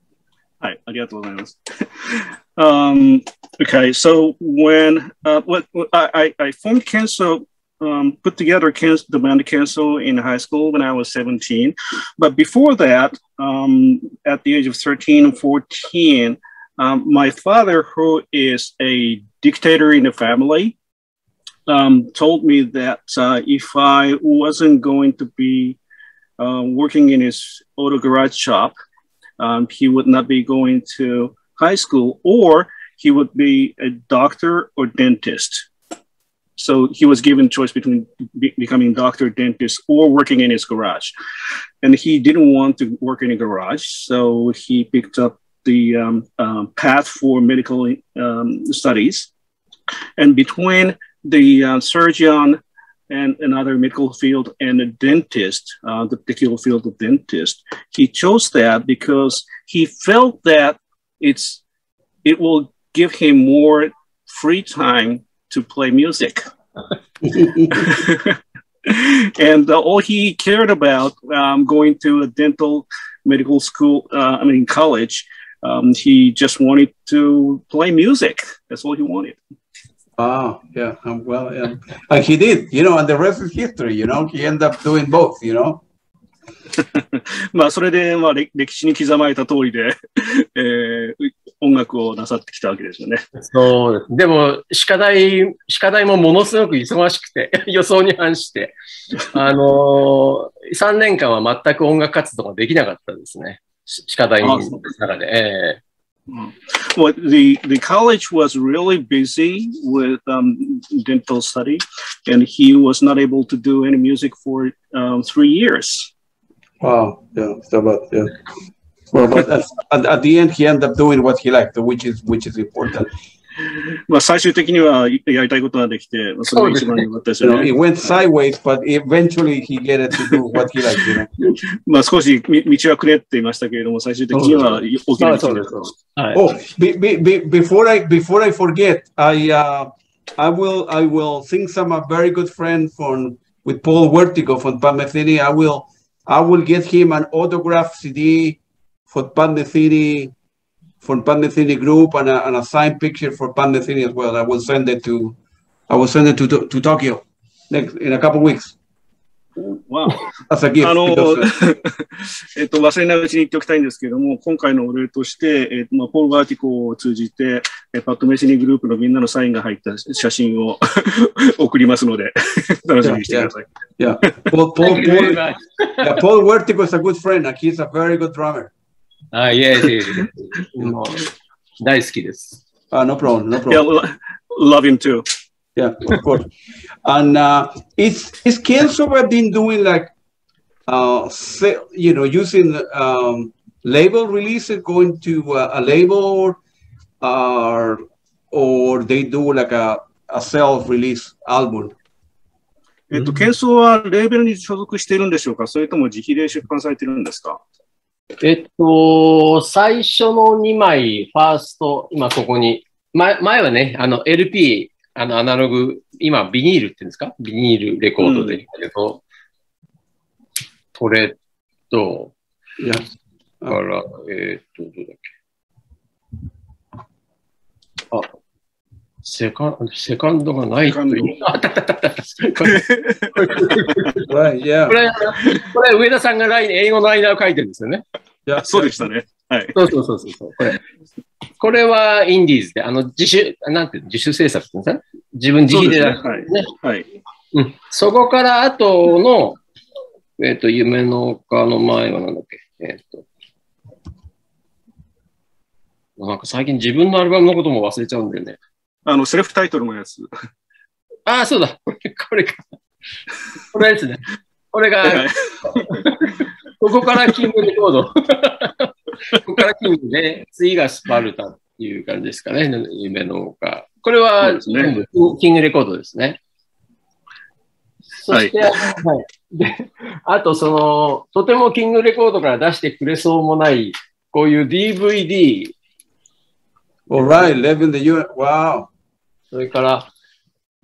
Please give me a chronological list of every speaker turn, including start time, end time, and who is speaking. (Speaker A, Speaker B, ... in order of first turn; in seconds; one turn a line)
Speaker A: 0.6-20.7
Speaker A: 21.7-25.8
Speaker A: 26.4-28.7
Speaker A: 29.4-35.7
Speaker A: 36.6-41.1
Speaker A: 41.8-49.3
Speaker A: 50.2-52.6
Speaker A: 53.1-61.6
Speaker A: 62.2-66.4
Speaker B: 67.3-67.7
Speaker A: 67.7-79.4
Speaker B: 80.2-85.8
Speaker A: 86.8-93.2
Speaker C: 93.3-98.7
Speaker C: 99.3-105.8
Speaker A: 104.4-104.8
Speaker A: 106.3-116.1
Speaker B: 116.8-118.3
Speaker B: 119.1-123.1
Speaker A: 123.7-127.7
Speaker C: 126.5-127.1
Speaker B: 127.4-131.3
Speaker A: 131.4-135.9
Speaker C: 134.3-136.4
Speaker B: 136.3-148.6
Speaker B: 149.1-150.3
Speaker B: 151.0-155.3
Speaker B: 155.9-158.7
Speaker A: 159.9-160.2
Speaker B: 160.5-161.5
Speaker A: 160.8-173.6
Speaker B: 173.0-175.4
Speaker C: 174.8-176.1
Speaker B: 176.0-178.7
Speaker C: 179.3-182.6
Speaker B: 182.9-183.8
Speaker A: 183.7-185.2
Speaker B: 185.8-186.5
Speaker B: 187.0-190.1
Speaker B: 190.9-196.6
Speaker B: 197.2-201.9
Speaker A: 203.1-207.6
Speaker C: 208.4-219.2
Speaker A: 218.2-218.6
Speaker C: 220.9-221.3
Speaker C: 221.9-222.3
Speaker C: 223.7-225.2
Speaker C: 229.2-234.3
Speaker A: 230.9-231.4
Speaker A: 232.6-233.7
Speaker B: 234.3-235.0
Speaker C: 234.9-238.0
Speaker B: 238.4-238.9
Speaker A: 238.6-239.8
Speaker C: 239.7-240.8
Speaker C: 241.6-246.7
Speaker A: 245.7-247.1
Speaker C: 247.5-249.6
Speaker C: 250.4-253.2
Speaker C: 256.2-258.6
Speaker A: 259.1-260.3
Speaker C: 261.3-262.6
Speaker C: 263.7-276.4
Speaker A: 265.0-266.1
Speaker A: 274.4-274.9
Speaker C: 278.2-285.7
Speaker A: 278.3-278.6
Speaker B: 287.1-288.9
Speaker C: 287.2-287.5
Speaker C: 289.5-290.1